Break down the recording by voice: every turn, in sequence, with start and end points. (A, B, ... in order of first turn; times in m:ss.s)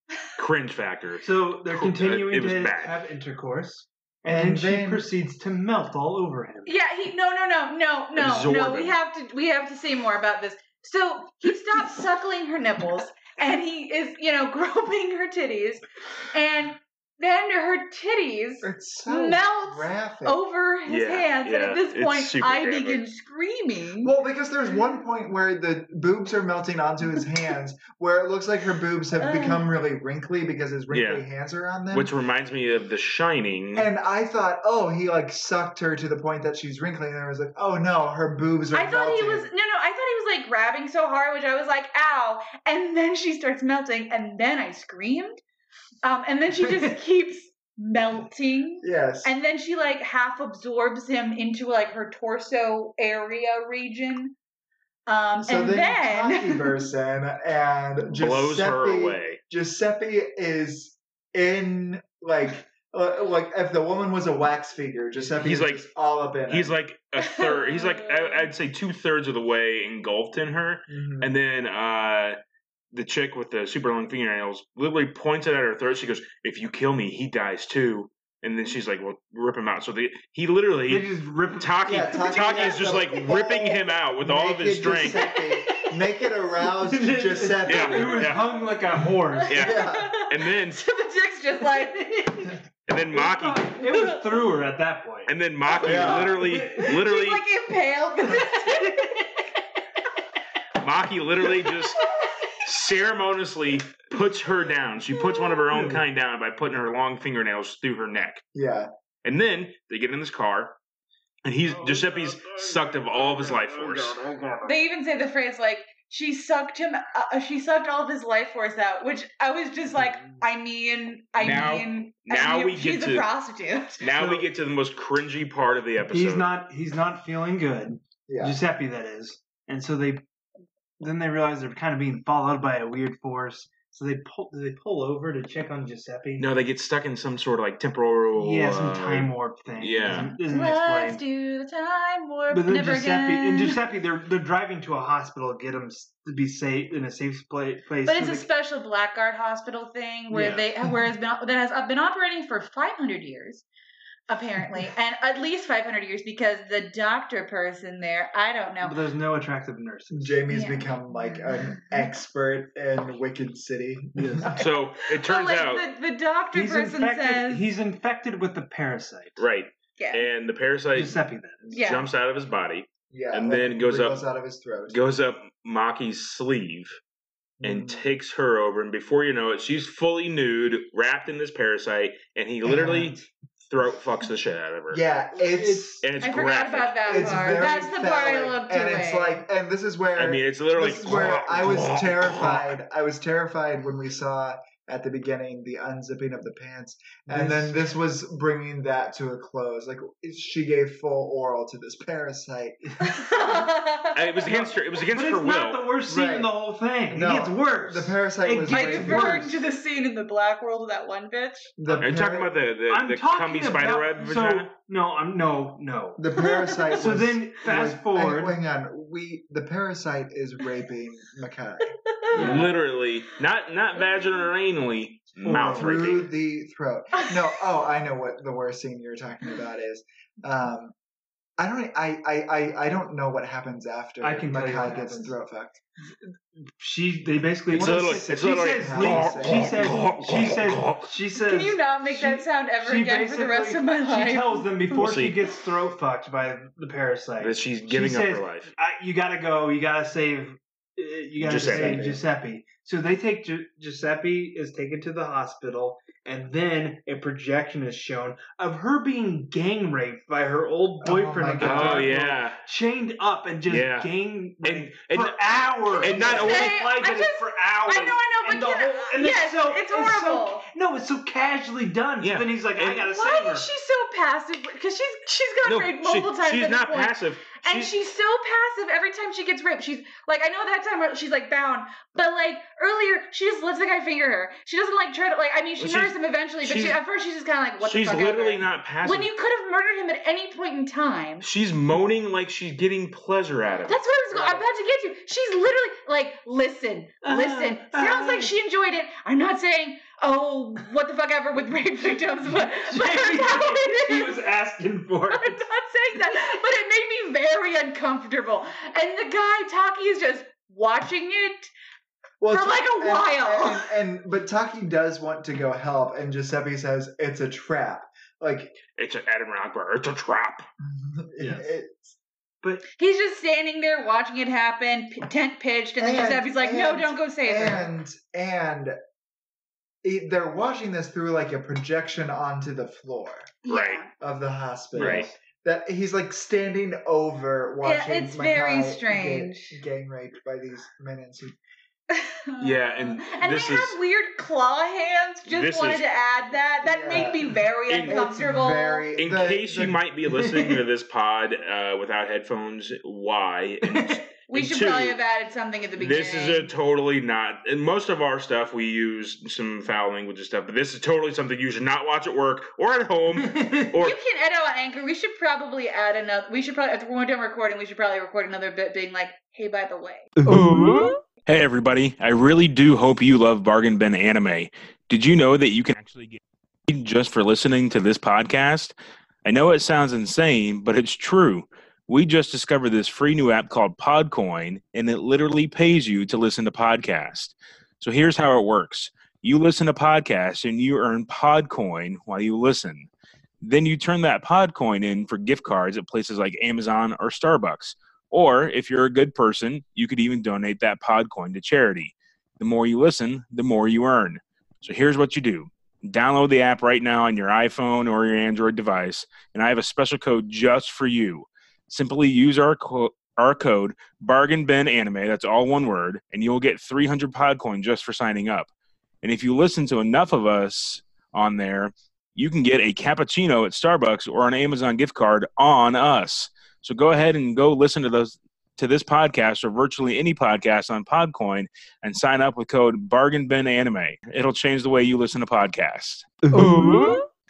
0:00.4-0:03.0 A
0:01.2-0:06.7 B
0:04.3-0:05.1 C
0:06.7-0:24.1 D
0:08.2-0:09.0 A
0:18.6-0:20.4 C
0:20.9-0:23.0 A
0:24.0-0:32.1 C
0:29.2-0:29.6 D
0:30.9-0:31.2 A
0:31.9-0:33.9 A
0:33.8-0:39.5 C
0:38.7-0:45.4 D
0:46.0-0:54.4 D
0:48.8-0:49.3 C
0:55.1-0:56.9 D
0:55.4-1:06.7 C
0:58.1-0:59.4 A
1:05.4-1:05.9 A
1:06.5-1:12.4 A
1:07.2-1:08.5 D
1:10.9-1:11.4 C
1:12.9-1:25.3 A
1:20.9-1:22.8 B
1:21.8-1:28.4 C
1:26.7-1:29.6 B
1:27.6-1:28.5 A
1:29.4-1:32.3 D
1:29.5-1:30.8 A
1:29.5-1:30.1 C
1:31.6-1:32.6 B
1:32.9-1:33.8 A
1:33.1-1:36.9 B
1:33.9-1:34.4 D
1:35.3-1:37.4 A
1:35.8-1:36.4 C
1:36.8-1:39.4 D
1:38.4-1:39.3 B
1:40.8-1:42.1 A
1:42.0-1:42.4 D
1:42.6-1:48.4 A
1:45.1-1:45.6 D
1:45.7-1:46.0 B
1:48.5-1:48.9 C
1:49.2-1:50.8 A
1:51.4-1:54.2 A
1:51.7-1:54.7 B
1:54.6-2:04.0 D
2:01.4-2:03.3 A
2:04.0-2:06.5 A
2:04.1-2:04.5 B
2:06.1-2:10.3 B
2:08.3-2:08.6 C
2:11.0-2:16.5 B
2:16.4-2:20.4 A
2:18.4-2:21.2 B
2:20.4-2:23.8 D
2:22.5-2:28.5 B
2:28.0-2:33.6 D
2:30.3-2:30.7 B
2:34.3-2:39.0 D
2:38.8-2:40.4 B
2:40.1-2:44.6 C
2:40.5-2:40.9 D
2:44.2-2:44.6 B
2:44.6-2:45.9 A
2:45.1-2:47.7 D
2:46.5-2:49.4 B
2:49.4-2:54.2 A
2:50.0-2:50.3 D
2:51.0-2:51.8 B
2:51.7-2:52.1 D
2:53.1-2:55.0 C
2:54.9-2:57.0 A
2:57.6-2:58.0 C
2:57.6-3:05.0 A
3:02.6-3:03.2 C
3:04.9-3:06.0 C
3:05.4-3:06.1 B
3:06.0-3:07.2 A
3:06.2-3:09.4 D
3:07.1-3:23.5 C
3:07.2-3:07.6 B
3:10.2-3:12.7 A
3:17.3-3:17.8 B
3:23.0-3:24.5 D
3:24.1-3:25.9 A
3:24.5-3:29.6 B
3:26.1-3:26.5 C
3:27.1-3:29.6 C
3:28.6-3:31.7 D
3:31.8-3:32.5 C
3:31.9-3:34.7 A
3:32.9-3:36.3 B
3:36.2-3:42.7 C
3:36.4-3:37.0 D
3:36.9-3:38.6 B
3:42.1-3:42.4 D
3:42.3-3:46.3 A
3:42.4-3:42.7 B
3:45.4-3:46.0 B
3:45.5-3:51.0 C
3:51.6-3:55.8 C
3:54.2-3:55.4 B
3:56.8-4:33.7 B
3:57.7-4:00.0 C
3:57.7-4:01.1 A
4:01.4-4:04.8 D
4:04.9-4:05.4 A
4:07.4-4:08.7 A
4:11.4-4:12.1 A
4:11.4-4:12.2 C
4:21.0-4:22.2 C
4:21.6-4:22.6 A
4:23.7-4:26.8 A
4:26.1-4:26.4 C
4:26.3-4:30.7 D
4:32.2-4:33.0 A
4:33.0-4:51.5 D
4:35.6-4:37.9 A
4:45.8-4:47.0 A
4:47.8-4:49.3 A
4:51.4-4:54.0 A
4:53.9-5:04.4 D
4:57.2-4:58.5 B
5:02.4-5:05.6 B
5:05.3-5:11.7 D
5:12.4-5:18.8 C
5:12.5-5:13.9 D
5:19.0-5:20.7 A
5:20.8-5:22.2 C
5:21.4-5:21.7 B
5:23.0-5:27.9 D
5:26.0-5:29.0 C
5:30.0-5:33.6 C
5:33.6-5:34.1 D
5:33.7-5:34.0 A
5:34.2-5:41.6 C
5:34.9-5:35.3 B
5:35.0-5:35.3 A
5:37.8-5:39.8 D
5:42.1-5:49.1 D
5:42.6-5:44.0 A
5:45.5-5:46.0 A
5:46.8-5:50.0 C
5:47.9-5:48.2 A
5:49.2-5:55.2 A
5:50.3-5:50.8 B
5:53.8-5:54.2 B
5:54.5-5:56.7 D
5:56.0-6:04.2 A
6:03.4-6:04.0 B
6:04.0-6:10.3 D
6:10.5-6:33.1 A
6:10.5-6:10.8 B
6:33.6-6:58.7 A
6:59.2-7:17.2 A
7:16.5-7:17.2 B
7:16.5-7:17.1 C